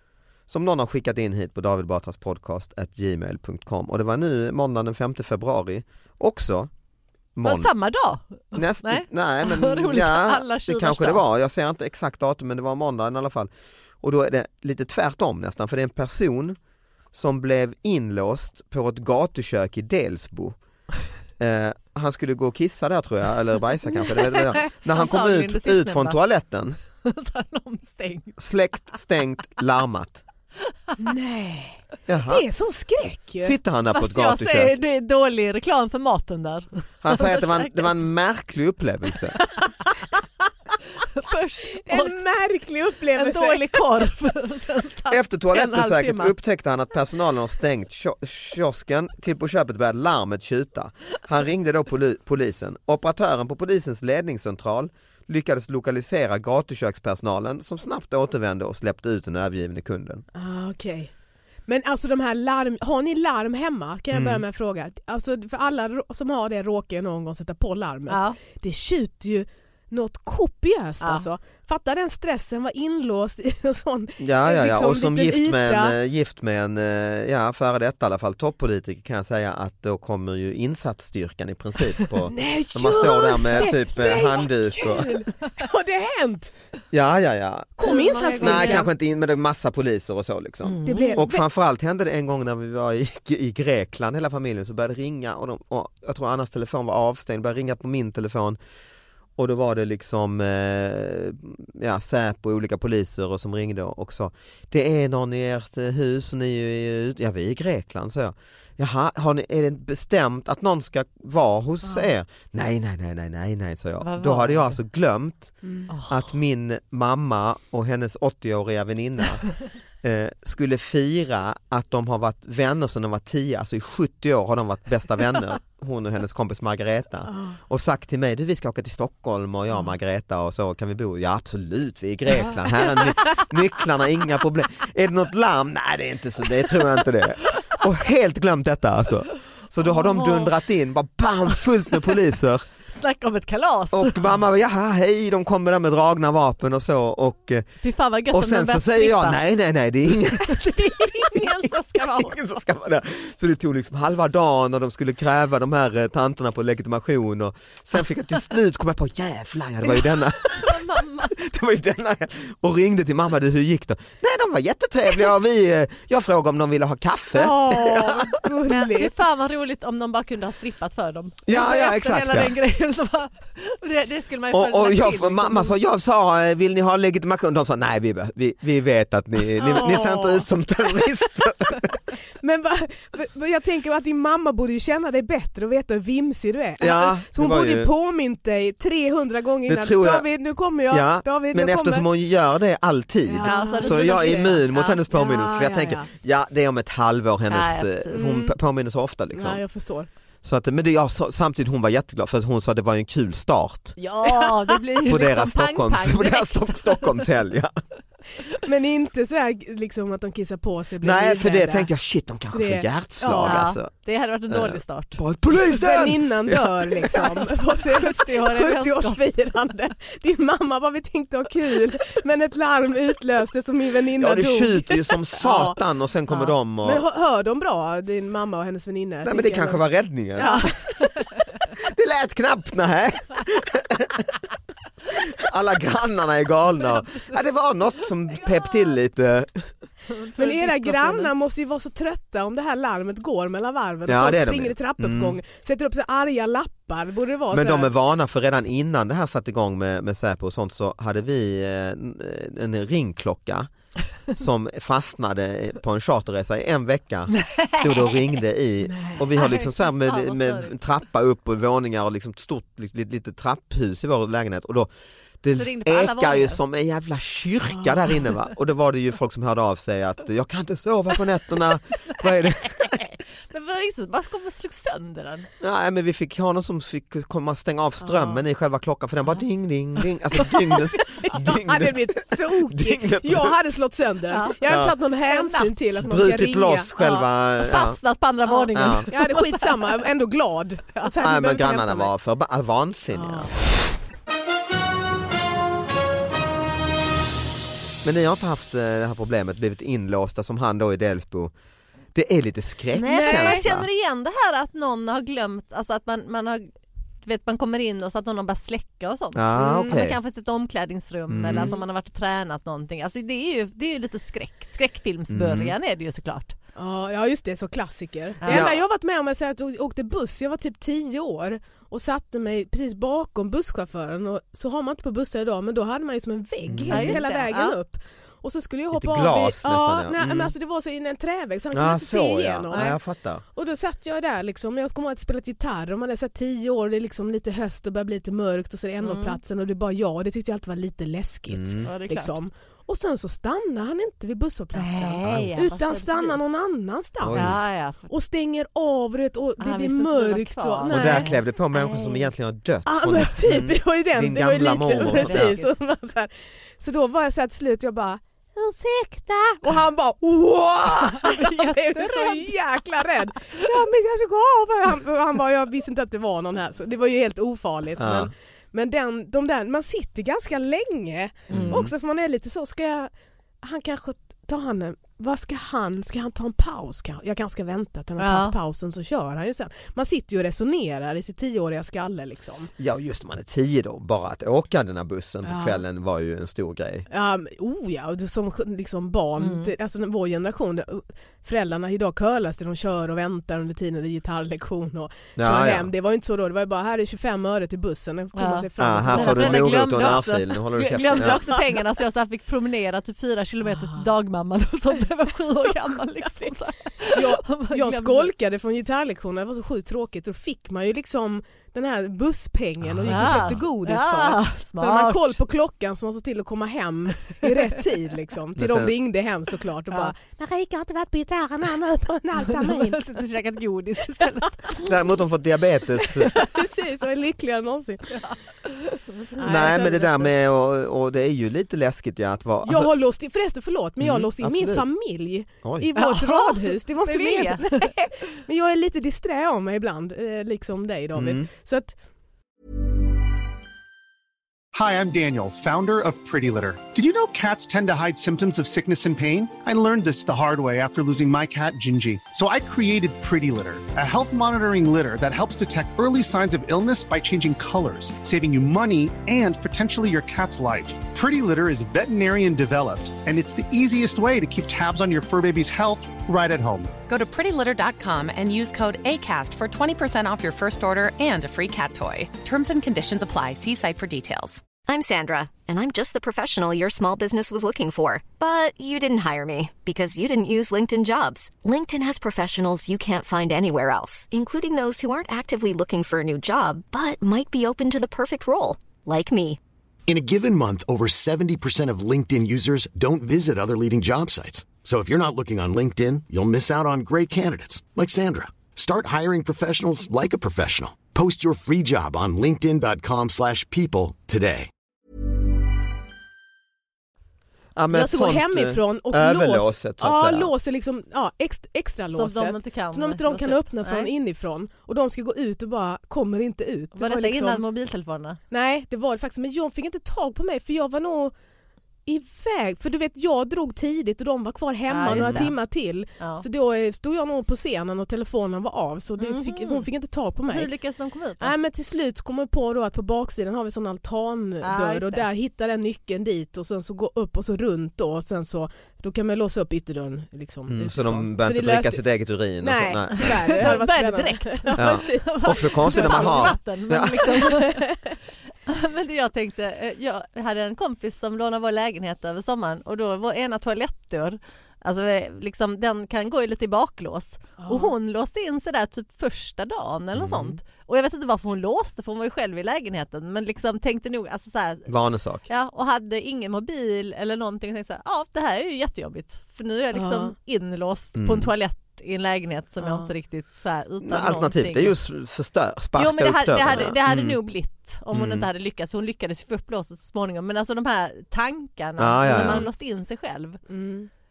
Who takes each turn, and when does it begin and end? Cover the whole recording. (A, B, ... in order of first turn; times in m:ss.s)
0:00.5-0:06.7 A
0:07.4-0:07.7 A
0:07.4-0:11.2 B
0:08.5-0:16.6 A
0:17.1-0:20.6 A
0:21.4-0:26.8 A
0:24.3-0:26.2 B
0:27.0-0:28.4 B
0:28.4-0:30.2 A
0:31.0-0:33.5 C
0:32.1-0:32.4 A
0:33.4-0:34.7 A
0:33.9-0:38.0 B
0:37.0-0:39.4 A
0:41.2-0:42.2 B
0:41.8-0:43.8 C
0:43.2-0:46.3 B
0:45.1-1:00.2 A
1:00.3-1:01.1 C
1:01.7-1:15.9 C
1:04.1-1:04.4 A
1:08.1-1:08.4 B
1:11.0-1:11.3 B
1:14.2-1:25.2 A
1:22.3-1:26.5 C
1:26.9-1:38.6 A
1:27.8-1:28.8 C
1:27.8-1:28.9 B
1:30.6-1:31.2 B
1:30.8-1:31.4 C
1:39.4-1:55.5 A
1:54.0-1:54.8 B
1:55.9-1:56.3 B
1:56.1-1:59.5 A
2:00.0-2:22.6 A
2:07.3-2:07.5 C
2:20.0-2:20.5 B
2:22.9-2:24.4 B
2:23.9-2:27.6 A
2:27.8-2:29.4 B
2:28.3-2:48.4 A
2:30.4-2:32.6 B
2:40.5-2:41.3 B
2:47.3-2:49.1 C
2:48.7-2:55.8 B
2:51.5-2:52.5 A
2:54.5-3:01.9 A
2:59.6-3:00.5 C
3:02.4-3:12.0 C
3:06.8-3:07.9 A
3:09.6-3:10.3 A
3:10.9-3:19.6 A
3:13.3-3:16.1 C
3:13.4-3:15.0 B
3:17.5-3:18.4 B
3:18.1-3:18.5 C
3:19.3-3:20.1 C
3:20.4-3:24.0 A
3:24.0-3:27.2 B
3:25.0-3:27.7 A
3:28.6-3:31.9 C
3:31.0-3:33.9 A
3:32.5-3:33.6 C
3:33.4-3:35.2 B
3:34.5-3:37.4 A
3:35.5-3:45.8 C
3:37.1-3:39.2 B
3:44.2-3:47.0 A
3:46.8-3:49.8 C
3:49.2-3:50.8 A
3:50.3-3:50.9 C
3:50.4-3:50.7 B
3:51.8-3:54.2 A
3:55.1-3:59.7 A
3:57.0-3:57.4 B
3:58.3-3:58.9 B
4:00.1-4:01.3 B
4:00.4-4:07.9 C
4:04.0-4:05.4 A
4:07.5-4:13.7 A
4:14.3-4:24.9 A
4:17.3-4:18.3 B
4:18.8-4:19.3 C
4:19.4-4:20.8 B
4:25.4-4:33.0 A
4:25.5-4:26.6 B
4:32.2-4:35.5 B
4:35.6-4:43.6 A
4:38.1-4:38.4 C
4:41.1-4:46.9 C
4:44.3-4:45.7 B
4:44.7-4:44.9 A
4:46.1-4:48.0 A
4:47.0-4:50.1 B
4:48.5-4:52.1 C
4:48.7-4:49.1 A
4:51.2-4:53.5 A
4:53.1-4:53.5 C
4:58.0-5:01.5 A
5:02.1-5:03.9 A
5:02.9-5:06.7 B
5:03.1-5:03.7 C
5:07.2-5:16.6 B
5:09.3-5:10.2 A
5:09.5-5:10.0 C
5:11.3-5:11.7 A
5:15.3-5:15.7 A
5:16.8-5:32.9 C
5:18.4-5:18.7 B
5:18.5-5:18.8 A
5:26.7-5:27.2 A
5:26.9-5:27.8 B
5:28.9-5:30.5 A
5:31.7-5:33.4 A
5:32.7-5:33.0 B
5:33.5-5:51.3 C
5:39.0-5:39.4 B
5:41.5-5:41.9 A
5:41.8-5:42.4 B
5:44.7-5:46.4 B
5:45.2-5:45.5 A
5:47.2-5:47.6 A
5:47.3-5:48.1 B
5:49.6-5:52.3 B
5:50.9-5:55.6 A
5:52.8-6:22.7 C
5:54.9-5:55.7 B
6:01.2-6:03.0 B
6:08.0-6:08.3 A
6:11.5-6:11.9 A
6:18.2-6:18.6 B
6:22.8-6:27.0 A
6:25.4-6:25.8 C
6:27.1-6:40.2 C
6:29.4-6:29.7 B
6:35.4-6:35.9 A
6:38.3-6:48.3 B
6:38.8-6:41.4 A
6:41.1-6:41.6 C
6:47.1-7:03.0 C
6:52.8-6:53.6 A
6:53.1-6:55.4 B
6:58.6-6:58.9 A
7:02.4-7:04.9 B
7:04.8-7:06.3 A
7:06.2-7:08.2 C
7:09.1-7:10.0 B
7:09.4-7:10.3 C
7:09.4-7:12.9 A
7:12.6-7:22.0 C
7:14.0-7:14.9 A
7:15.6-7:15.9 A
7:15.9-7:17.9 B
7:21.1-7:21.5 A
7:24.7-7:47.0 D
7:47.1-7:54.6 E
7:54.8-8:09.6 F
8:10.1-8:24.7 G
8:27.8-8:30.5 A
8:27.9-8:37.6 C
8:32.1-8:34.1 B
8:36.9-8:38.4 B
8:38.5-8:41.3 C
8:42.0-8:50.7 C
8:44.9-8:45.6 B
8:45.0-8:45.5 A
8:46.2-8:46.4 B
8:49.2-8:49.9 B
8:50.5-8:51.5 B
8:51.4-9:02.0 C
8:54.6-8:55.3 B
9:00.7-9:03.8 A
9:02.6-9:06.6 C
9:03.1-9:07.8 B
9:04.8-9:07.4 A
9:07.1-9:08.1 C
9:08.7-9:24.9 B
9:17.6-9:17.9 C
9:20.1-9:20.6 A
9:24.9-9:25.4 A
9:25.5-9:34.9 B
9:29.9-9:30.3 C
9:31.2-9:31.5 A
9:32.8-9:33.1 C
9:34.0-9:37.4 A
9:36.0-9:43.6 B
9:38.1-9:38.5 A
9:42.0-9:42.7 A
9:42.2-9:42.7 C
9:43.7-9:44.1 C